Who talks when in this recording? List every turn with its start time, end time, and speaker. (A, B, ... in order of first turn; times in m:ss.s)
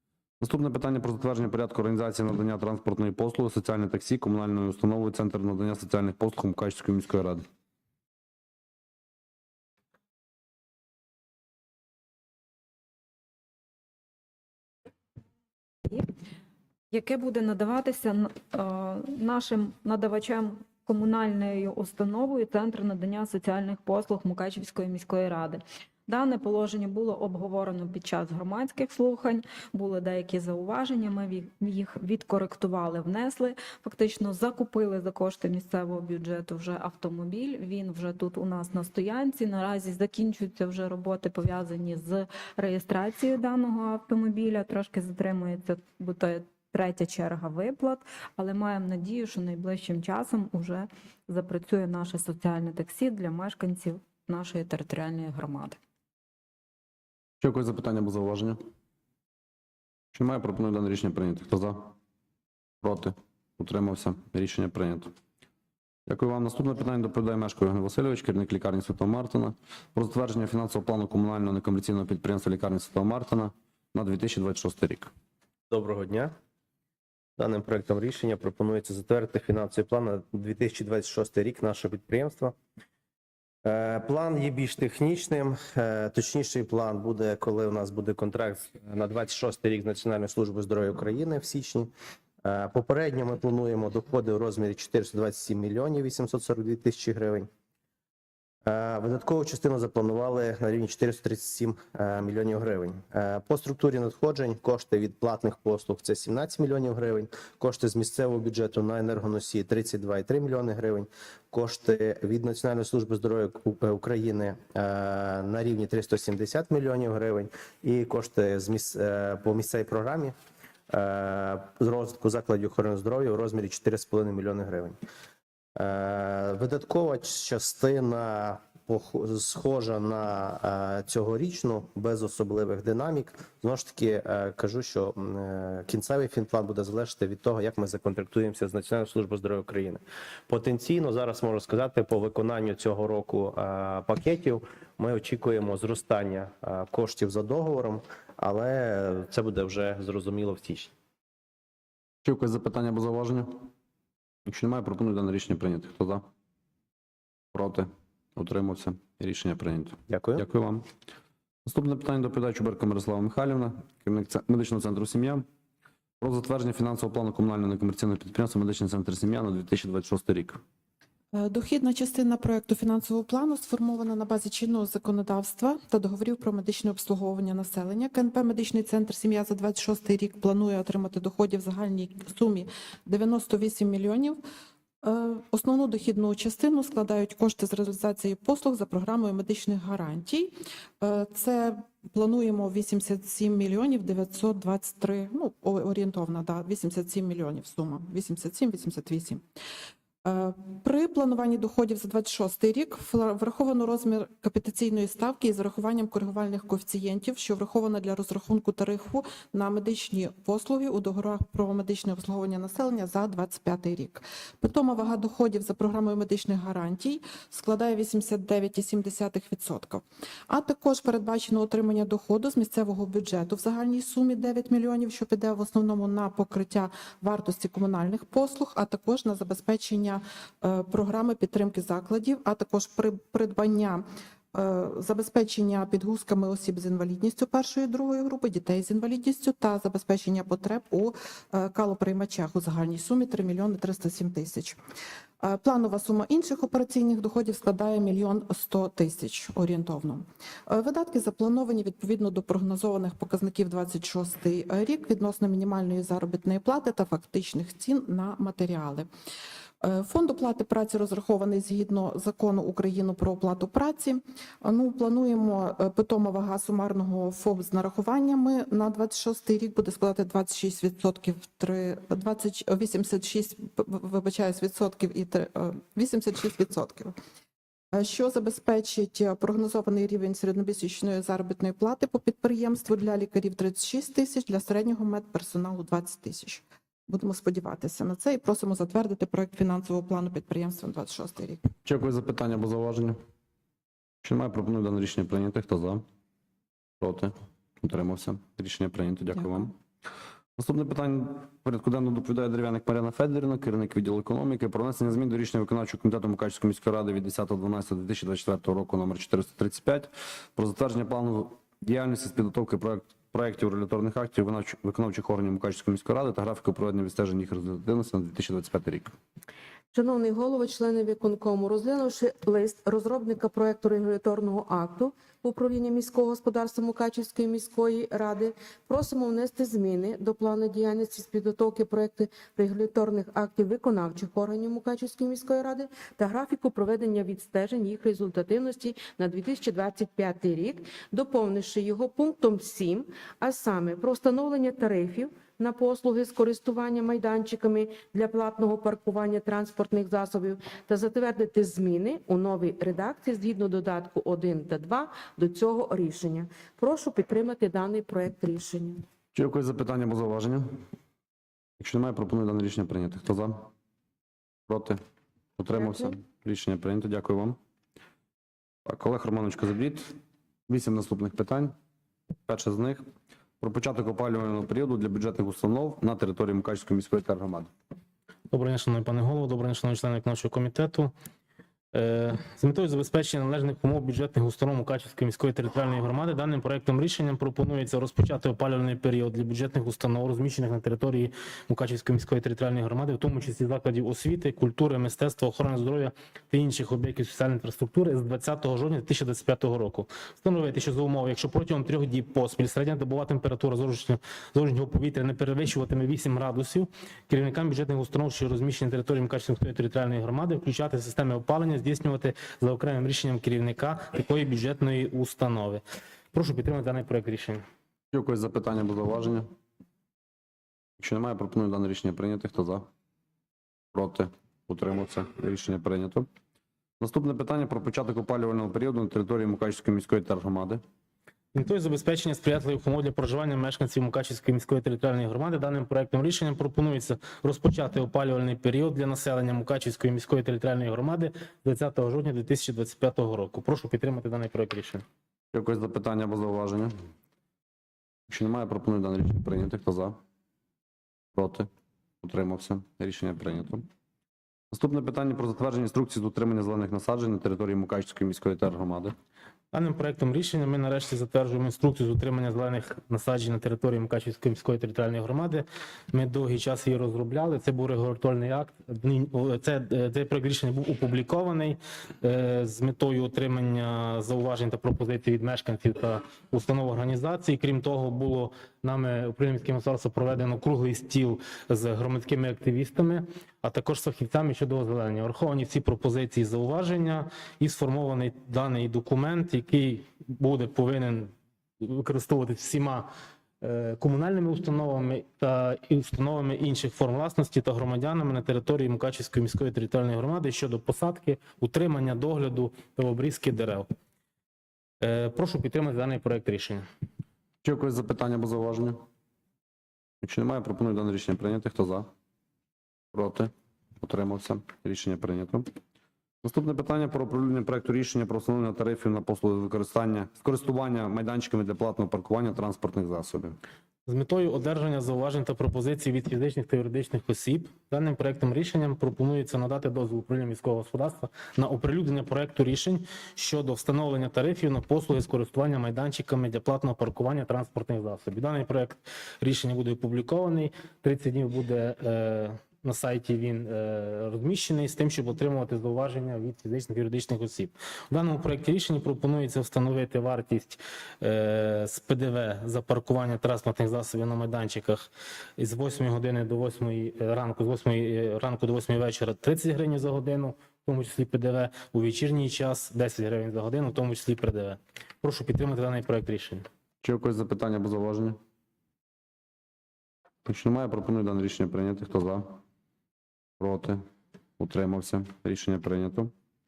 0:00.4-0:07.4 A
0:16.9-0:55.8 B
0:57.4-0:58.6 A
1:00.1-1:01.9 A
1:02.8-1:05.1 A
1:06.1-1:15.1 A
1:15.7-1:16.3 C
1:17.4-1:22.5 C
1:23.6-1:31.9 C
1:32.4-1:37.5 C
1:38.6-2:00.3 C
2:00.9-2:05.0 C
2:05.8-2:30.9 C
2:32.2-2:33.7 A
2:34.4-2:36.2 A
2:37.5-2:40.9 A
2:40.1-2:40.4 C
2:41.6-2:45.4 A
2:46.2-2:50.6 A
2:51.3-3:04.4 D
3:05.0-3:19.4 D
3:20.2-4:04.8 D
4:05.4-4:19.1 D
4:19.8-4:37.2 D
4:37.9-4:51.6 D
4:51.8-4:53.2 A
4:54.2-4:56.0 A
4:57.0-4:59.7 A
5:00.6-5:19.1 A
5:19.9-5:59.0 E
5:59.3-6:00.8 A
6:01.8-6:03.7 A
6:04.7-6:05.0 A
6:05.6-6:07.6 A
6:05.8-6:06.1 E
6:08.8-6:10.2 A
6:10.7-6:11.7 A
6:12.4-6:13.0 A
6:13.6-6:17.7 A
6:18.5-6:21.1 F
6:21.9-6:57.6 F
6:58.1-6:59.5 A
7:01.0-7:02.9 A
7:03.9-7:06.3 A
7:07.0-7:10.8 A
7:11.5-7:25.0 F
7:25.5-7:26.9 A
7:28.3-7:30.2 A
7:31.3-7:31.7 A
7:32.2-7:33.8 A
7:34.7-7:39.1 A
7:39.7-8:13.1 F
8:13.6-8:23.9 F
8:25.0-8:26.8 F
8:27.6-8:29.0 A
8:30.2-8:32.1 A
8:33.1-8:35.7 A
8:36.4-8:43.6 A
8:44.0-9:26.6 F
9:27.0-9:28.4 A
9:30.4-9:32.6 A
9:33.6-9:34.0 A
9:34.6-9:36.3 A